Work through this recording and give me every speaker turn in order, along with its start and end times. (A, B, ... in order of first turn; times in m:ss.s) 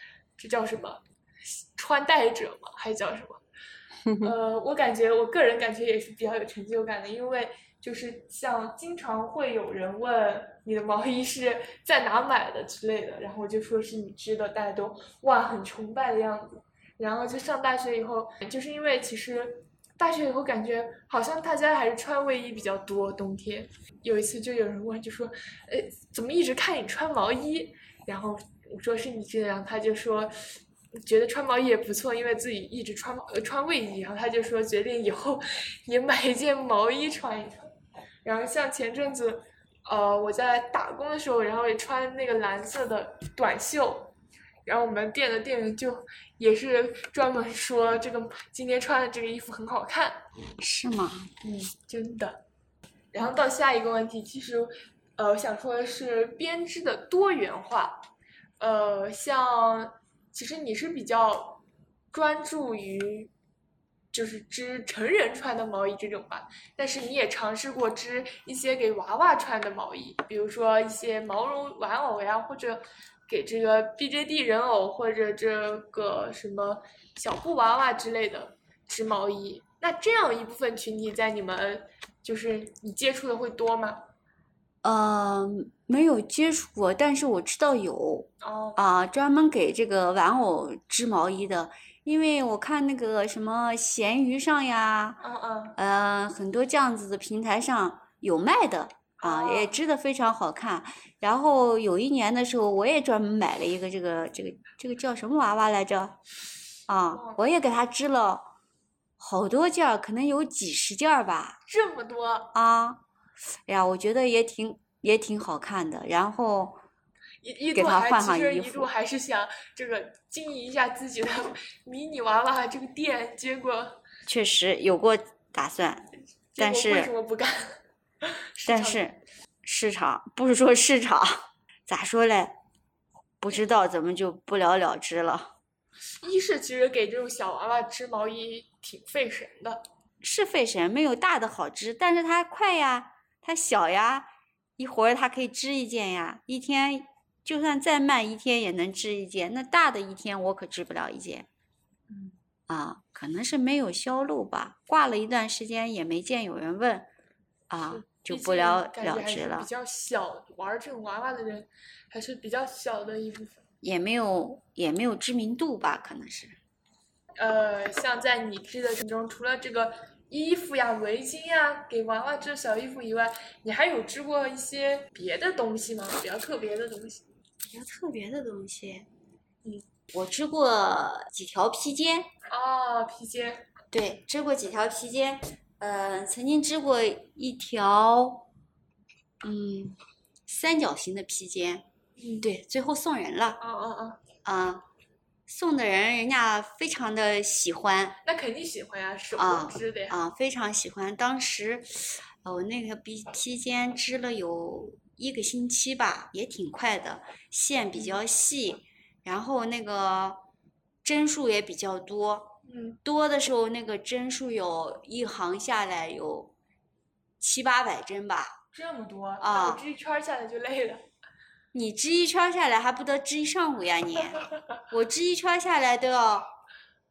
0:00.4-0:03.4 A
0:04.0-0:04.3 B
0:04.2-0:30.3 A
0:31.0-0:37.7 A
0:38.2-0:44.1 A
0:44.6-0:50.2 A
0:50.6-0:51.3 B
0:51.4-0:52.4 A
0:53.1-0:58.0 A
0:58.6-1:03.3 A
1:04.1-1:24.0 A
1:24.8-1:35.2 B
1:28.4-1:28.8 A
1:35.2-1:35.8 A
1:35.8-1:46.2 B
1:39.2-1:39.8 A
1:46.9-1:48.5 B
1:47.1-1:47.4 A
1:49.2-1:51.6 B
1:51.7-1:52.5 A
1:52.5-1:53.0 B
1:53.6-1:56.8 B
1:57.4-2:04.0 A
1:57.7-1:58.9 B
2:04.3-2:07.1 B
2:06.5-2:09.0 A
2:08.6-2:12.6 B
2:13.4-2:15.5 B
2:16.2-2:19.8 A
2:20.2-2:31.5 B
2:32.7-2:37.0 B
2:37.7-2:39.7 B
2:37.8-2:43.6 A
2:43.8-2:46.6 B
2:47.4-2:57.2 A
2:57.6-2:59.1 B
3:00.1-3:02.3 B
3:02.5-3:03.7 A
3:03.9-3:08.4 B
3:09.4-3:11.8 B
3:12.2-3:12.5 A
3:12.4-3:13.6 B
3:13.6-3:14.2 A
3:14.4-3:14.8 B
3:15.5-3:18.2 B
3:18.2-3:20.2 A
3:19.4-3:30.4 B
3:31.0-3:36.5 B
3:32.6-3:33.0 A
3:37.4-3:38.6 B
3:38.7-3:41.0 A
3:39.4-3:39.8 B
3:41.7-3:46.5 B